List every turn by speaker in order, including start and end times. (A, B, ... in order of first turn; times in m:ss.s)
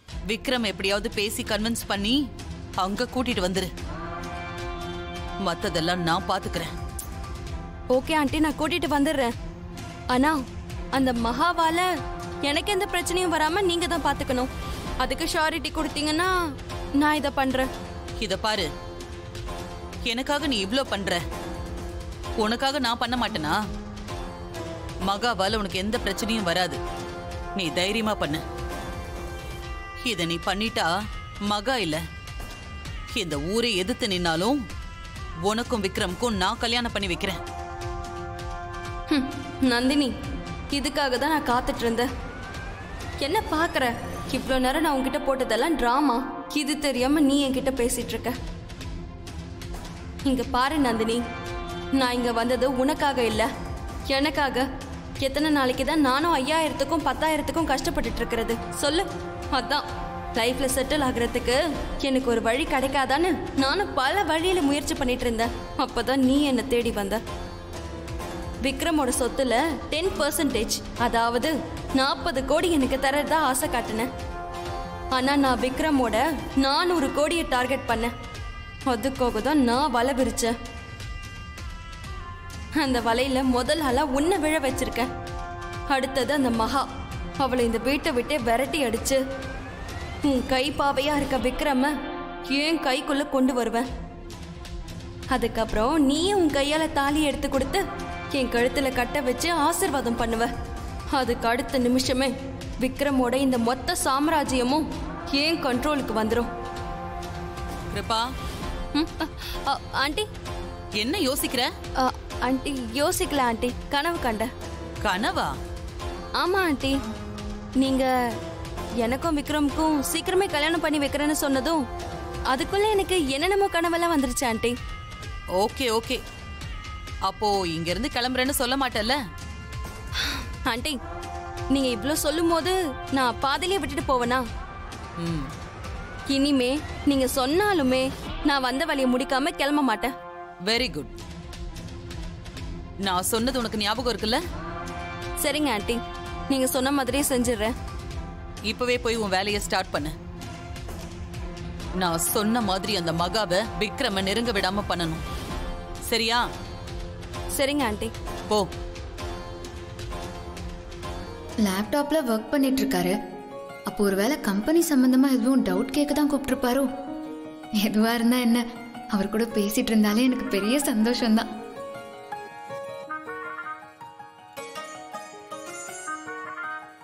0:00.3-0:02.2 A
0:02.8-0:03.7 A
0:05.4-0:06.7 A
0:07.9-0:09.3 B
0:10.1-0:10.4 B
0:10.9-0:11.8 B
0:12.4-0:14.5 B
0:15.0-0:16.3 B
0:17.0-0:17.7 B
0:18.2-0:18.7 A
0:20.0-0:21.2 A
0:22.4-0:23.5 A
0:25.1-0:26.8 A
0:27.6-0:28.4 A
0:30.0-0:30.9 A
0:31.5-0:32.0 A
0:33.1-0:34.5 A
0:35.5-0:37.4 A
0:39.1-0:40.1 B
0:40.7-0:42.1 B
0:43.2-0:48.3 B
0:50.2-0:51.2 B
0:52.0-0:53.5 B
0:54.1-0:54.6 B
0:55.2-1:07.2 B
1:08.6-1:14.1 B
1:15.1-1:18.1 B
1:18.9-1:20.5 B
1:22.8-1:25.1 B
1:25.9-1:26.8 B
1:27.4-1:29.2 B
1:30.2-1:31.9 B
1:32.5-1:33.8 B
1:35.3-1:37.8 B
1:38.3-1:40.5 B
1:41.1-1:46.5 B
1:47.9-1:48.2 A
1:48.9-1:50.2 B
1:51.0-1:51.7 A
1:52.0-1:54.5 B
1:55.0-1:55.5 A
1:56.4-1:56.9 B
1:57.8-1:58.1 B
1:59.0-2:01.8 B
2:02.5-2:04.7 B
2:05.6-2:06.2 A
2:07.3-2:09.2 A
2:10.2-2:11.0 B
2:11.7-2:14.4 B
2:15.2-2:15.5 A
2:16.3-2:20.1 B
2:20.7-2:21.1 A
2:23.0-2:24.4 A
2:25.4-2:26.0 B
2:26.5-2:27.7 B
2:28.6-2:30.1 A
2:32.0-2:35.2 A
2:36.1-2:36.4 A
2:37.6-2:38.1 B
2:41.6-2:43.1 C
2:43.9-2:46.9 C
2:47.8-2:48.6 C
2:49.1-2:51.5 C